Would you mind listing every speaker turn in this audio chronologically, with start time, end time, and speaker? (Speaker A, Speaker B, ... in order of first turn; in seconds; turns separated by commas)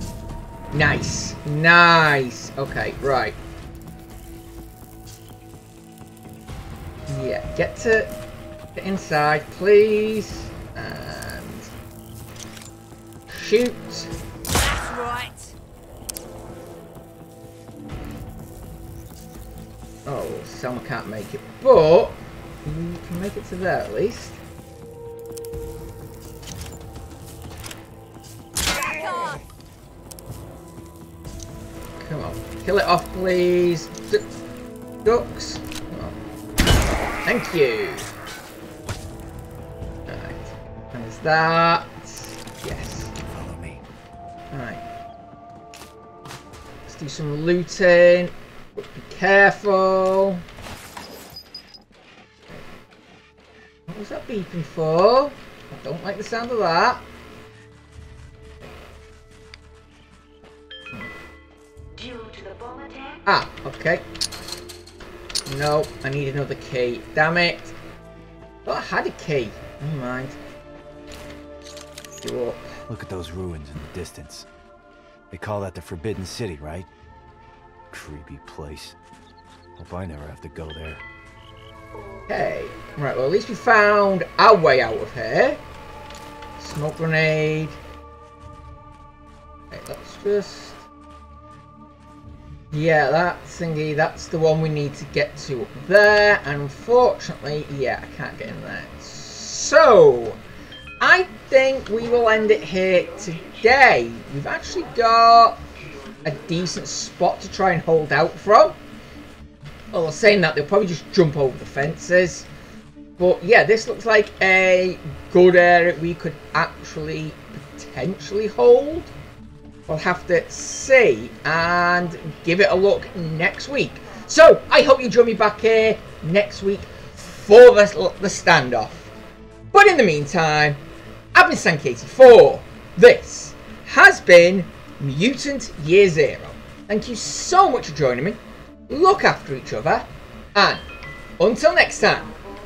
Speaker A: 0.7-3.4, Speaker A: 7.1-8.1, Speaker A: 8.7-11.7, Speaker A: 13.3-14.1, Speaker B: 14.6-15.5, Speaker A: 20.1-24.4, Speaker B: 28.9-29.4, Speaker A: 32.0-34.2, Speaker A: 35.0-36.1, Speaker A: 37.2-38.1, Speaker A: 40.0-43.1, Speaker C: 43.2-43.8, Speaker A: 44.5-44.8, Speaker A: 46.9-50.4, Speaker A: 53.9-57.0, Speaker B: 62.1-63.0, Speaker A: 63.2-64.0, Speaker A: 65.5-67.8, Speaker A: 68.6-70.4, Speaker A: 72.2-72.7, Speaker C: 72.9-74.5, Speaker C: 75.3-76.9, Speaker C: 77.9-79.0, Speaker C: 79.8-81.0, Speaker A: 82.3-85.6, Speaker A: 86.6-87.8, Speaker A: 89.7-90.8, Speaker A: 92.7-100.4, Speaker A: 101.0-105.7, Speaker A: 106.2-108.8, Speaker A: 109.9-112.5, Speaker A: 113.2-119.1, Speaker A: 119.9-129.1, Speaker A: 129.7-130.8, Speaker A: 131.3-140.8, Speaker A: 141.4-142.3